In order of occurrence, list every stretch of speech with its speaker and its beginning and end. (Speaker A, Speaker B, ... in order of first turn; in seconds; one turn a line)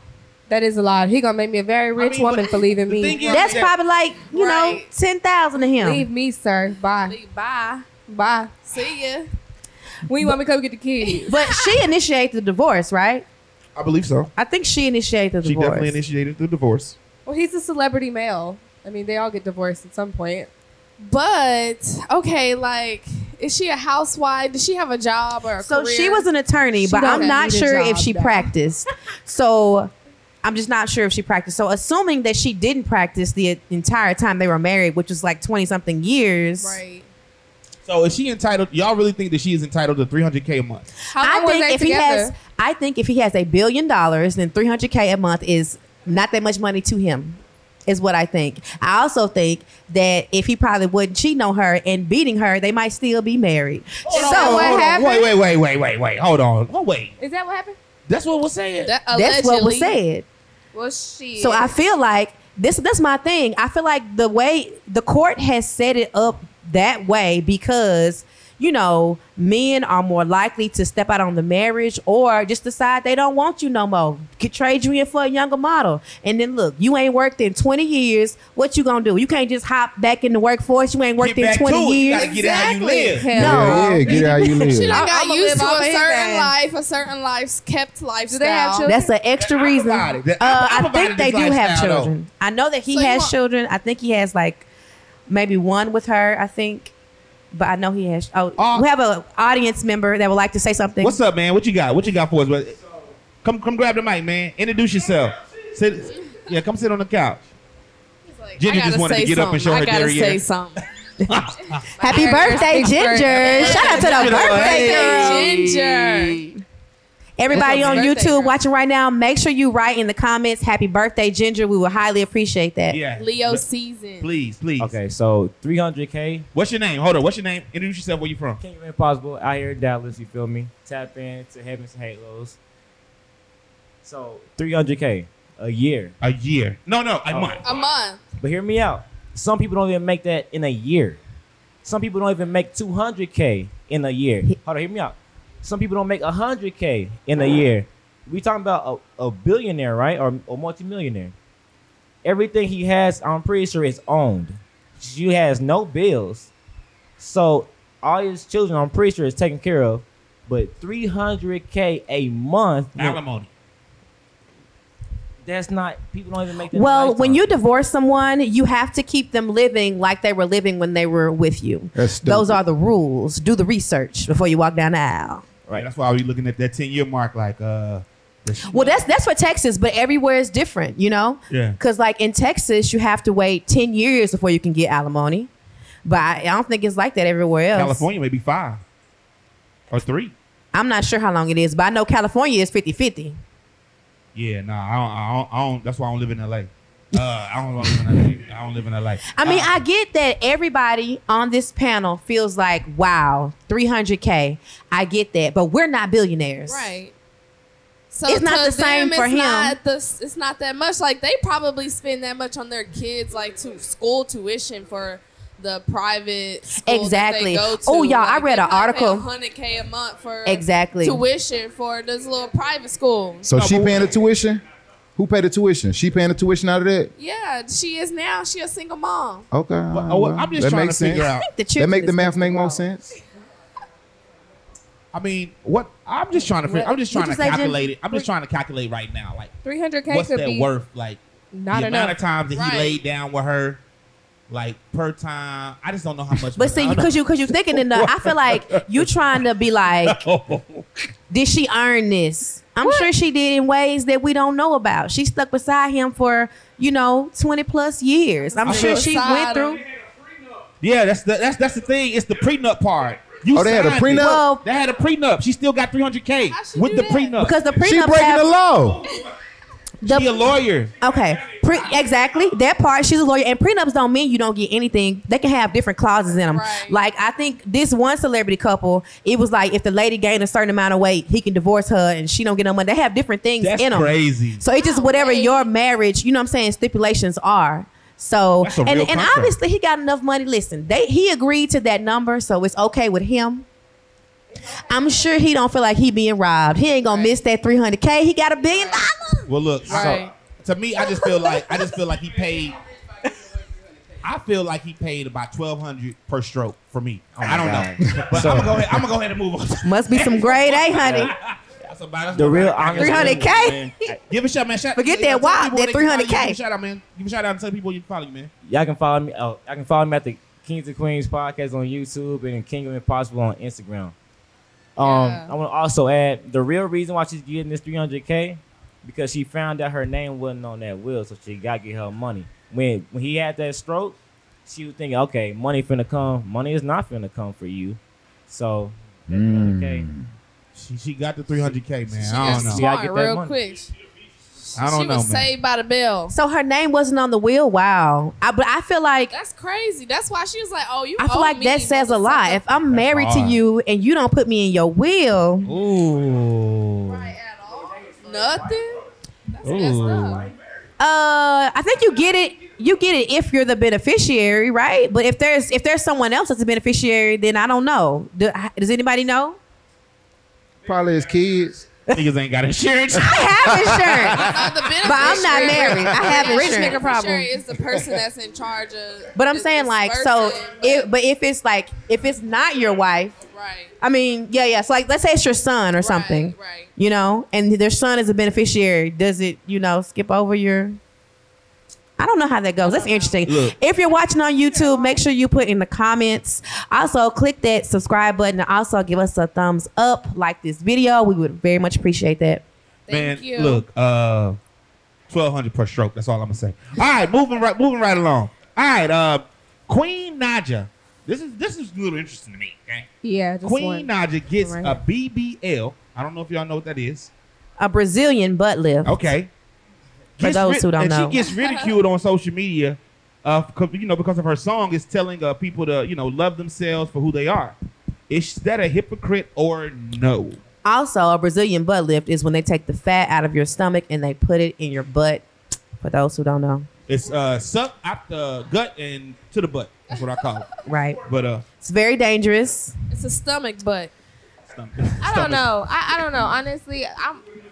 Speaker A: 0.5-3.5
Speaker B: 1.9-3.7
Speaker C: 3.1-3.5
Speaker D: 3.2-6.0
Speaker C: 4.3-4.8
Speaker A: 5.8-7.2
Speaker C: 7.0-7.9
Speaker A: 8.0-8.7
Speaker C: 8.7-9.3
Speaker A: 10.1-11.4
Speaker C: 11.1-11.6
Speaker D: 11.3-13.2
Speaker B: 13.7-14.3
Speaker D: 14.3-16.0
Speaker B: 15.4-17.0
Speaker A: 17.2-20.5
Speaker C: 21.0-26.3
Speaker D: 25.6-29.9
Speaker A: 26.8-28.5
Speaker D: 30.4-36.8
Speaker C: 36.6-37.1
Speaker B: 37.9-40.9
Speaker A: 41.1-42.3
Speaker D: 41.1-55.0
Speaker B: 54.0-57.1
Speaker A: 54.1-55.4
Speaker A: 57.2-57.8
Speaker B: 58.1-58.9
Speaker C: 58.8-59.9
Speaker D: 59.1-60.2
Speaker A: 60.7-61.7
Speaker D: 61.4-82.5
Speaker B: 81.2-84.5
Speaker A: 82.1-86.5
Speaker E: 83.3-85.0
Speaker C: 84.5-88.9
Speaker A: 88.3-89.1
Speaker D: 88.8-94.7
Speaker B: 89.4-92.1
Speaker C: 92.9-93.3
Speaker D: 95.3-96.9
Speaker D: 97.5-101.2
Speaker B: 98.6-98.8
Speaker B: 101.0-102.8
Speaker B: 103.4-107.4
Speaker C: 108.2-110.8
Speaker B: 108.6-110.4
Speaker B: 111.2-112.5
Speaker C: 112.0-116.5
Speaker D: 112.0-116.2
Speaker A: 112.1-115.4
Speaker B: 113.2-115.7
Speaker D: 117.4-123.0
Speaker B: 117.5-118.1
Speaker A: 117.5-118.4
Speaker C: 117.5-118.5
Speaker B: 122.9-123.6
Speaker C: 123.2-124.3
Speaker B: 124.2-124.9
Speaker F: 124.8-126.5
Speaker B: 126.5-128.6
Speaker F: 128.6-132.6
Speaker F: 134.0-136.1
Speaker B: 136.2-137.7
Speaker F: 137.3-137.6
Speaker C: 137.6-138.2
Speaker F: 138.4-141.2
Speaker F: 141.8-151.3
Speaker F: 152.2-156.5
Speaker F: 157.2-163.2
Speaker B: 162.9-163.5
Speaker F: 165.4-167.5
Speaker D: 166.7-175.4
Speaker E: 171.9-172.6
Speaker B: 175.7-179.0
Speaker D: 178.7-185.5
Speaker B: 181.5-181.8
Speaker D: 186.0-188.1
Speaker B: 187.7-188.8
Speaker B: 189.9-190.3
Speaker D: 190.7-193.4
Speaker B: 194.3-199.7
Speaker D: 199.3-206.9
Speaker C: 206.7-207.1
Speaker C: 208.1-223.5
Speaker D: 208.3-209.8
Speaker D: 216.8-219.2
Speaker D: 220.4-221.2
Speaker E: 223.4-224.6
Speaker B: 223.5-224.1
Speaker E: 225.2-227.1
Speaker C: 227.2-229.5
Speaker E: 229.5-233.1
Speaker B: 229.9-231.5
Speaker D: 231.4-232.8
Speaker B: 235.1-239.5
Speaker D: 236.6-238.2
Speaker A: 239.6-240.7
Speaker B: 240.1-241.2
Speaker A: 241.5-242.2
Speaker B: 241.7-243.8
Speaker C: 242.5-243.0
Speaker B: 244.5-249.1
Speaker D: 246.6-250.2
Speaker B: 249.9-250.9
Speaker D: 251.3-259.8
Speaker C: 258.6-259.8
Speaker B: 258.6-259.2
Speaker B: 260.8-268.4
Speaker E: 263.5-264.4
Speaker D: 264.2-264.6
Speaker C: 266.5-267.4
Speaker D: 267.4-268.5
Speaker E: 267.8-269.0
Speaker B: 270.0-271.0
Speaker D: 270.0-293.6
Speaker C: 276.5-277.0
Speaker B: 283.6-284.6
Speaker C: 284.7-285.7
Speaker B: 288.6-289.6
Speaker D: 294.9-299.5
Speaker C: 297.1-297.4
Speaker C: 298.7-299.0
Speaker B: 299.5-302.8
Speaker F: 299.9-300.3
Speaker C: 299.9-300.3
Speaker B: 304.2-318.5
Speaker F: 307.3-308.7
Speaker E: 308.0-309.0
Speaker D: 309.8-311.3
Speaker F: 312.3-313.6
Speaker D: 313.0-313.9
Speaker D: 314.9-316.6
Speaker F: 318.6-324.1
Speaker F: 324.9-340.1
Speaker A: 325.0-325.5
Speaker E: 339.3-340.2
Speaker B: 340.7-342.8
Speaker C: 342.2-343.9
Speaker F: 342.2-343.5
Speaker C: 344.7-346.3
Speaker B: 344.8-345.5
Speaker D: 346.3-349.3
Speaker C: 349.3-352.6
Speaker D: 351.2-355.7
Speaker B: 352.9-353.6
Speaker B: 355.6-357.3
Speaker C: 357.1-359.0
Speaker C: 359.5-360.5
Speaker B: 359.6-360.5
Speaker D: 361.0-369.6
Speaker E: 370.8-371.9
Speaker B: 372.1-374.2
Speaker D: 373.1-377.2
Speaker C: 374.4-381.1
Speaker B: 375.4-375.7
Speaker A: 376.4-377.4
Speaker D: 379.3-383.3
Speaker C: 383.4-383.9
Speaker D: 384.0-391.0
Speaker C: 386.0-386.9
Speaker D: 392.2-402.6
Speaker C: 392.8-393.4
Speaker B: 393.4-393.8
Speaker C: 403.1-403.8
Speaker B: 403.1-404.6
Speaker B: 405.3-413.1
Speaker A: 413.2-415.0
Speaker B: 413.6-417.3
Speaker D: 417.8-419.2
Speaker B: 419.0-419.5
Speaker B: 420.4-427.8
Speaker D: 420.4-421.4
Speaker B: 428.3-430.6
Speaker D: 430.8-435.4
Speaker D: 436.0-436.9
Speaker B: 437.1-440.7
Speaker D: 440.9-441.2
Speaker B: 441.2-441.7
Speaker D: 441.8-442.9
Speaker C: 443.1-444.1
Speaker B: 444.7-445.7
Speaker A: 445.2-447.4